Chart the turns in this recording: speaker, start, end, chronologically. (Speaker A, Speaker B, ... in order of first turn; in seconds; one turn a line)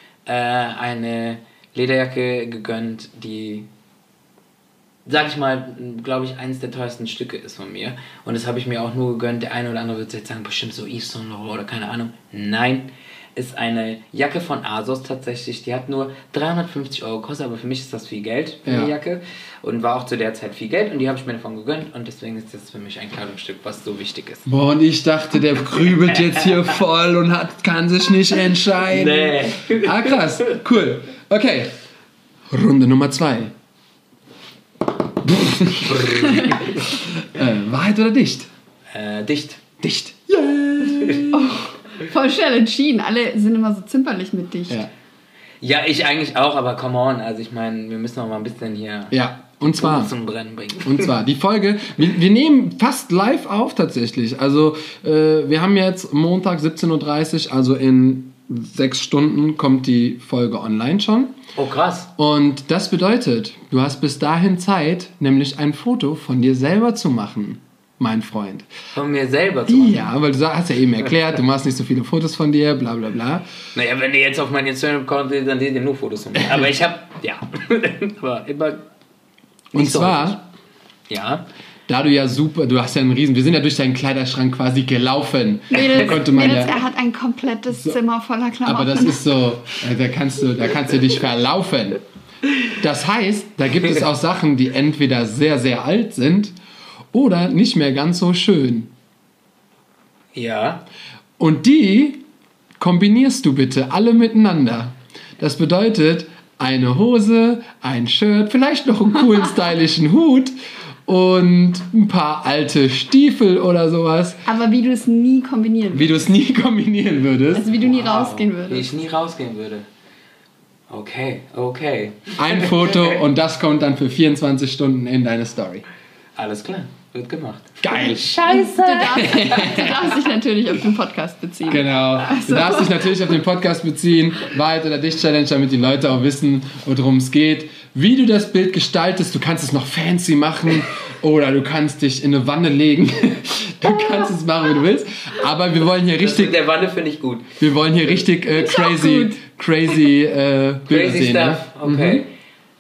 Speaker A: 0.3-3.7
Speaker A: 5.1-24.5
Speaker B: 18.6-18.9
Speaker B: 24.5-31.7
Speaker A: 25.9-26.5
Speaker A: 28.9-30.5
Speaker B: 32.5-33.5
Speaker B: 35.2-38.5
Speaker A: 35.8-36.9
Speaker A: 38.9-39.7
Speaker B: 39.8-41.5
Speaker A: 40.8-41.3
Speaker C: 41.3-44.8
Speaker A: 45.6-51.1
Speaker B: 49.1-50.1
Speaker B: 50.8-61.4
Speaker A: 61.5-62.1
Speaker B: 62.2-68.7
Speaker A: 69.0-70.1
Speaker B: 69.7-73.5
Speaker A: 73.8-78.8
Speaker A: 79.7-80.4
Speaker B: 79.7-80.4
Speaker A: 81.1-81.5
Speaker B: 81.9-86.8
Speaker C: 85.7-89.2
Speaker B: 87.7-88.0
Speaker B: 88.7-92.0
Speaker B: 92.8-96.5
Speaker B: 97.1-98.9
Speaker A: 100.3-100.8
Speaker B: 101.4-102.2
Speaker B: 102.8-110.5
Speaker B: 111.1-114.4
Speaker C: 114.5-116.2
Speaker B: 115.9-117.7
Speaker C: 117.5-118.9
Speaker A: 117.7-119.9
Speaker A: 120.9-123.2
Speaker B: 122.4-125.8
Speaker A: 126.4-130.0
Speaker B: 127.8-128.2
Speaker C: 128.4-133.2
Speaker B: 129.2-129.9
Speaker B: 131.7-146.6
Speaker A: 146.2-148.2
Speaker B: 147.6-152.2
Speaker C: 148.6-149.4
Speaker A: 150.9-152.3